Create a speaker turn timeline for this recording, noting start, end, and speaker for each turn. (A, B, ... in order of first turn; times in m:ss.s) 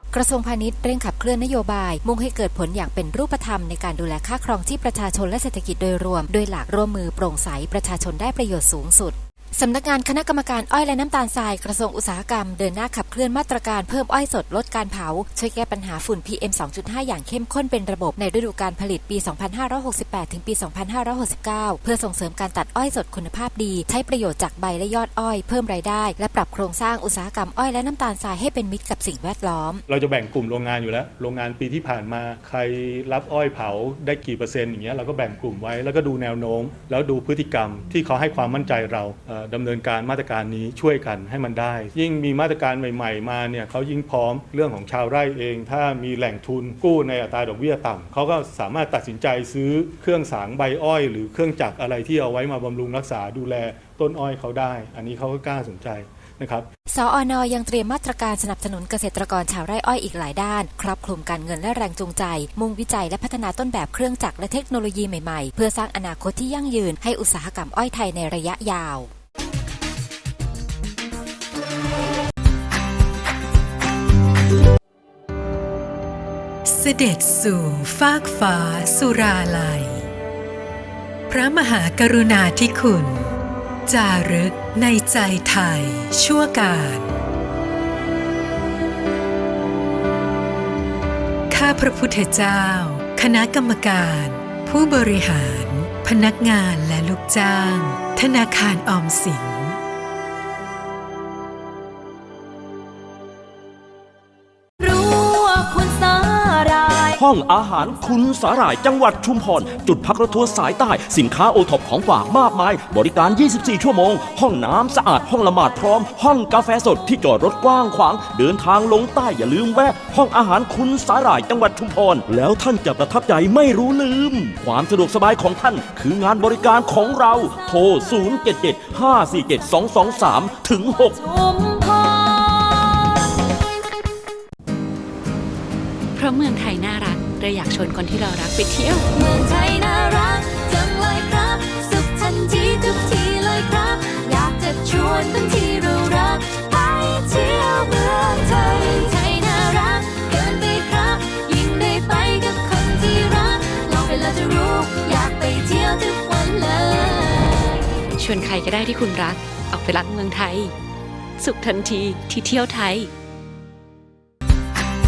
0:00.1-0:29.8 A
0:29.9-0:56.7 B
0:56.9-1:09.1 A
1:16.6-1:20.1 C
1:21.3-1:23.4 C
1:23.9-1:27.1 C
1:31.5-1:39.8 C
1:44.8-1:47.2 D
1:47.2-2:11.2 E
2:11.1-2:13.2 D
2:16.2-2:19.0 F
2:19.1-2:37.8 D
2:38.2-2:40.7 F
2:41.4-2:43.1 F